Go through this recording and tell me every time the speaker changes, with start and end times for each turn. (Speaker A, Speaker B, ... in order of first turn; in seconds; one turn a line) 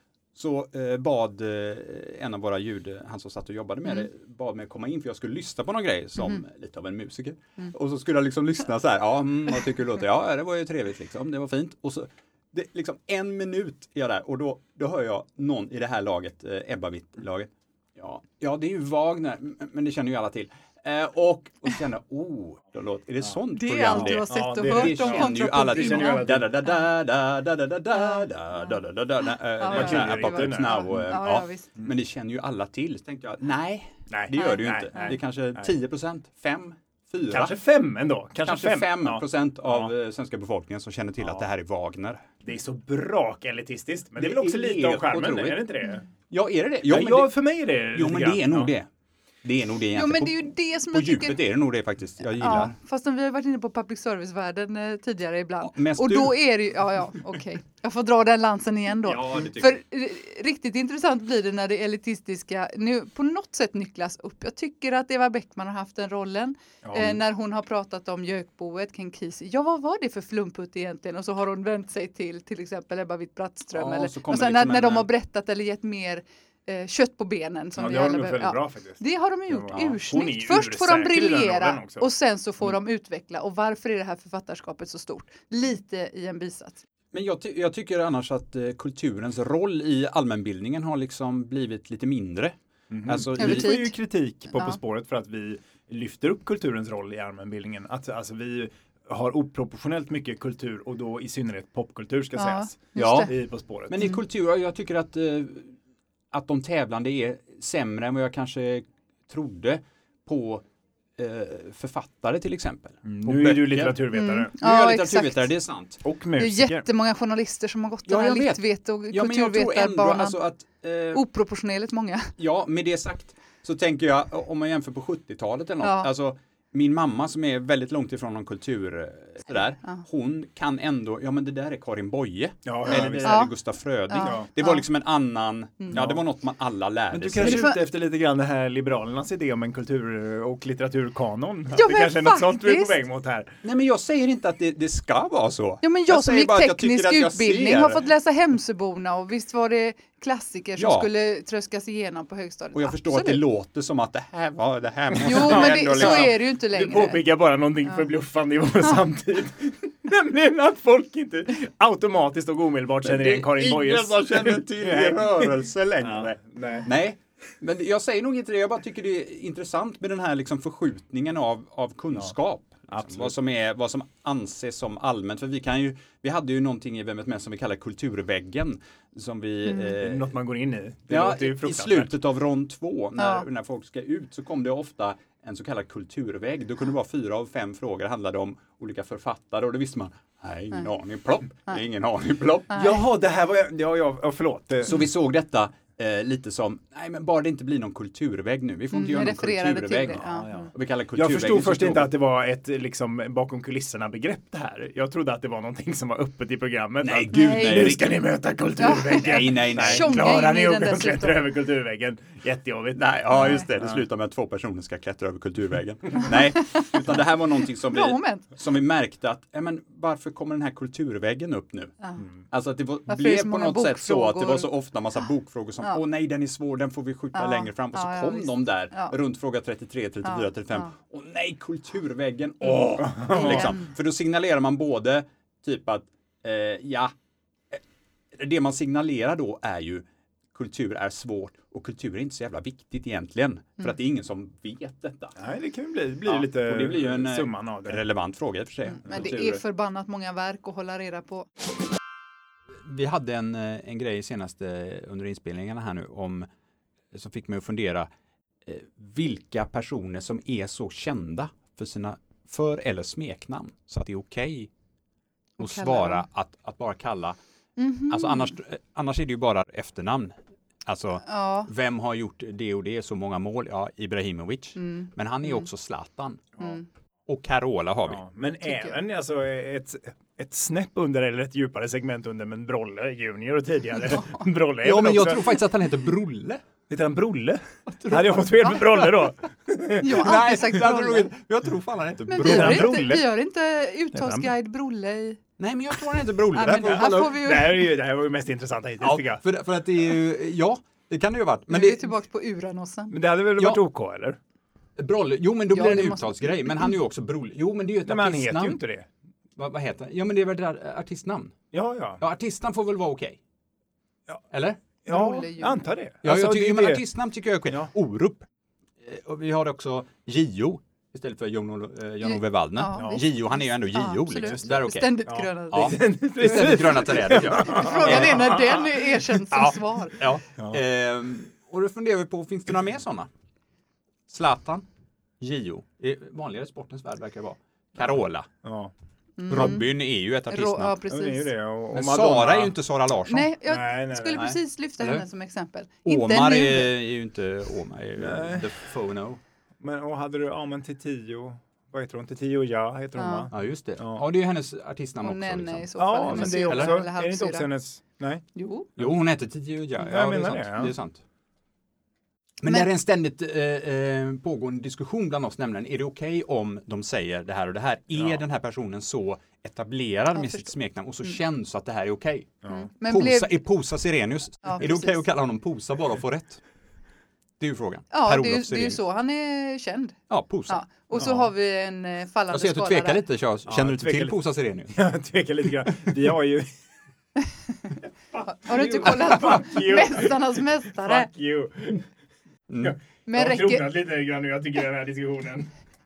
Speaker A: 0.3-37.5
Speaker B: 23.5-26.8
Speaker C: 23.9-26.5
Speaker B: 28.0-28.3
Speaker B: 29.6-31.7
Speaker C: 29.7-31.1
Speaker C: 34.1-35.7
Speaker B: 34.4-35.2
Speaker C: 37.3-39.9
Speaker A: 38.4-42.2
Speaker C: 42.4-46.0
Speaker A: 44.2-45.7
Speaker A: 46.3-47.3
Speaker C: 46.9-48.7
Speaker A: 48.0-48.9
Speaker A: 49.4-52.8
Speaker B: 49.9-51.4
Speaker B: 52.3-86.8
Speaker A: 55.6-56.4
Speaker A: 59.0-59.8
Speaker C: 66.8-67.2
Speaker A: 73.7-75.1
Speaker C: 77.8-82.1
Speaker A: 79.7-80.0
Speaker A: 87.1-93.7
Speaker C: 92.9-104.2
Speaker B: 93.4-93.9
Speaker B: 102.4-103.3
Speaker A: 103.0-103.3
Speaker A: 103.9-105.8
Speaker A: 106.3-110.6
Speaker A: 111.2-114.0
Speaker C: 113.0-114.5
Speaker B: 114.1-115.6
Speaker A: 114.5-116.0
Speaker C: 116.0-116.9
Speaker B: 116.4-120.4
Speaker A: 118.1-121.2
Speaker B: 121.1-122.3
Speaker A: 122.4-137.7
Speaker B: 125.8-126.1
Speaker C: 132.7-133.4
Speaker B: 133.2-133.5
Speaker B: 134.1-134.8
Speaker C: 134.2-134.5
Speaker C: 135.9-136.2
Speaker C: 137.1-143.5
Speaker B: 137.4-137.8
Speaker B: 141.7-143.0
Speaker A: 143.6-148.1
Speaker B: 145.8-153.4
Speaker A: 150.8-151.1
Speaker A: 152.7-156.3
Speaker B: 155.2-157.3
Speaker C: 155.2-166.9
Speaker A: 163.0-180.3
Speaker C: 172.9-173.3
Speaker C: 179.9-182.2
Speaker A: 181.1-192.7
Speaker B: 183.2-183.5
Speaker B: 192.7-193.0
Speaker C: 192.7-195.1
Speaker A: 194.8-202.1
Speaker B: 198.9-200.5
Speaker C: 200.2-214.0
Speaker A: 207.0-208.2
Speaker B: 207.3-208.0
Speaker B: 208.8-211.4
Speaker A: 209.1-210.3
Speaker A: 212.9-221.9
Speaker B: 213.3-213.7
Speaker B: 217.8-218.5
Speaker A: 222.5-237.1
Speaker B: 223.1-224.7
Speaker B: 227.3-229.2
Speaker B: 230.2-230.9
Speaker C: 233.2-233.7
Speaker B: 233.3-233.8
Speaker A: 238.3-245.4
Speaker C: 245.4-248.0
Speaker A: 246.3-249.6
Speaker B: 248.9-251.5
Speaker A: 252.9-256.5
Speaker A: 257.1-258.1
Speaker A: 258.6-264.7
Speaker B: 265.6-266.2
Speaker A: 265.6-267.4
Speaker B: 267.8-268.5
Speaker A: 268.1-276.4
Speaker B: 271.3-271.7
Speaker B: 274.8-275.7
Speaker B: 276.6-276.9
Speaker A: 277.3-278.2
Speaker C: 278.1-285.6
Speaker B: 278.6-279.0
Speaker B: 284.1-284.4
Speaker A: 284.8-286.6
Speaker C: 286.9-290.4
Speaker A: 287.9-289.3
Speaker B: 290.0-291.3
Speaker A: 290.0-293.1
Speaker B: 292.3-295.4
Speaker C: 292.4-293.3
Speaker C: 294.1-294.5
Speaker A: 295.6-297.4
Speaker B: 296.5-297.9
Speaker C: 296.7-299.4
Speaker A: 299.0-302.1
Speaker B: 301.7-303.1
Speaker C: 303.1-304.4
Speaker A: 305.0-308.8
Speaker B: 305.7-306.6
Speaker C: 308.0-309.1
Speaker A: 309.6-311.6
Speaker C: 311.7-312.2
Speaker A: 312.2-313.4
Speaker A: 314.5-314.8
Speaker C: 315.1-317.0
Speaker B: 315.1-315.8
Speaker A: 316.2-318.5
Speaker A: 319.0-325.2
Speaker B: 322.2-326.0
Speaker C: 322.9-323.2
Speaker C: 325.3-330.1
Speaker A: 325.7-328.4
Speaker B: 327.3-330.2
Speaker A: 330.2-333.3
Speaker A: 334.3-334.9
Speaker A: 335.4-338.5
Speaker C: 338.6-338.9
Speaker B: 339.4-339.9
Speaker A: 339.5-341.0
Speaker B: 340.5-341.5
Speaker C: 341.1-342.8
Speaker A: 341.9-343.5
Speaker B: 343.3-347.0
Speaker C: 343.7-344.5
Speaker A: 344.4-345.2
Speaker A: 346.0-349.4
Speaker C: 348.2-348.7
Speaker C: 349.8-354.3
Speaker B: 353.2-353.5
Speaker A: 353.5-357.1
Speaker B: 355.2-357.7
Speaker C: 356.0-358.4
Speaker B: 358.6-358.9
Speaker A: 359.0-361.2
Speaker C: 360.1-360.9
Speaker A: 362.6-376.6
Speaker C: 368.2-368.4
Speaker B: 370.3-370.7
Speaker C: 372.6-372.9
Speaker B: 372.7-373.6
Speaker B: 374.6-375.2
Speaker A: 377.6-379.0
Speaker B: 378.1-383.2
Speaker A: 380.3-381.4
Speaker A: 382.5-384.9
Speaker C: 383.7-384.4
Speaker C: 384.9-386.7
Speaker C: 388.3-392.1
Speaker B: 388.5-391.3
Speaker A: 392.7-393.0
Speaker C: 392.8-395.7
Speaker B: 393.3-393.9